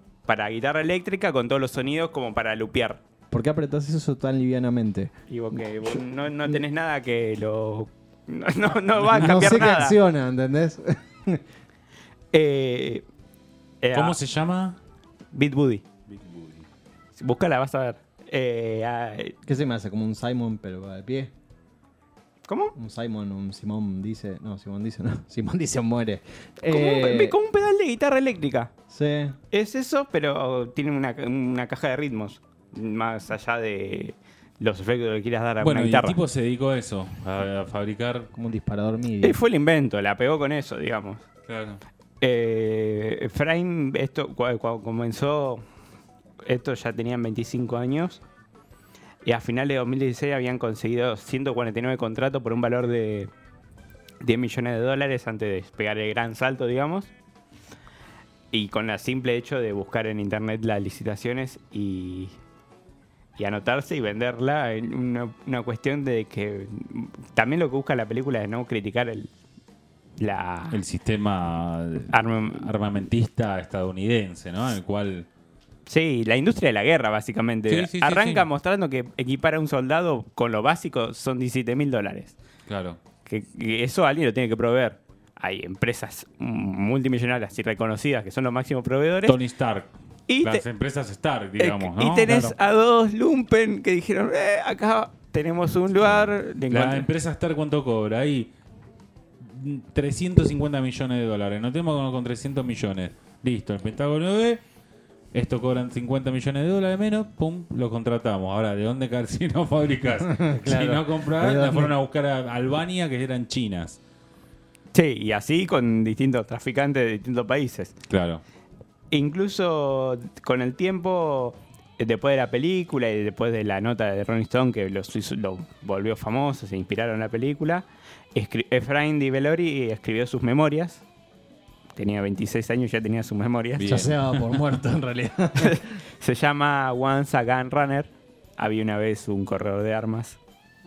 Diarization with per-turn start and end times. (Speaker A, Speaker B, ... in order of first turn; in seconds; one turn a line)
Speaker A: 0.2-3.0
Speaker B: 3.3-5.1
Speaker A: 5.3-10.0
Speaker B: 5.8-6.6
Speaker B: 9.1-11.4
Speaker A: 12.3-13.0
Speaker A: 13.8-14.2
Speaker C: 13.9-14.8
Speaker A: 15.3-15.8
Speaker C: 16.1-16.6
Speaker A: 17.1-19.4
Speaker B: 19.4-21.3
Speaker A: 22.5-22.7
Speaker B: 22.8-27.4
Speaker A: 26.7-28.7
Speaker B: 28.9-29.4
Speaker A: 29.5-36.2
Speaker C: 35.6-38.3
Speaker B: 38.3-39.4
Speaker A: 39.2-41.2
Speaker C: 41.5-41.8
Speaker A: 42.2-45.6
Speaker A: 46.5-48.2
Speaker A: 49.2-53.3
Speaker A: 54.2-57.1
Speaker A: 58.5-62.4
Speaker A: 63.4-69.3
Speaker A: 70.2-70.8
Speaker C: 70.7-75.3
Speaker A: 72.1-72.7
Speaker A: 75.8-82.4
Speaker C: 77.7-78.5
Speaker C: 82.7-83.0
Speaker A: 83.2-89.4
Speaker C: 89.2-92.5
Speaker A: 90.3-90.6
Speaker A: 91.6-97.1
Speaker C: 96.1-98.5
Speaker C: 99.4-104.6
Speaker C: 105.3-114.0
Speaker B: 110.3-111.9
Speaker A: 114.9-117.9
Speaker C: 118.1-118.4
Speaker A: 119.1-131.0
Speaker A: 131.9-134.0
Speaker C: 133.8-134.5
Speaker B: 133.8-135.8
Speaker A: 135.6-140.4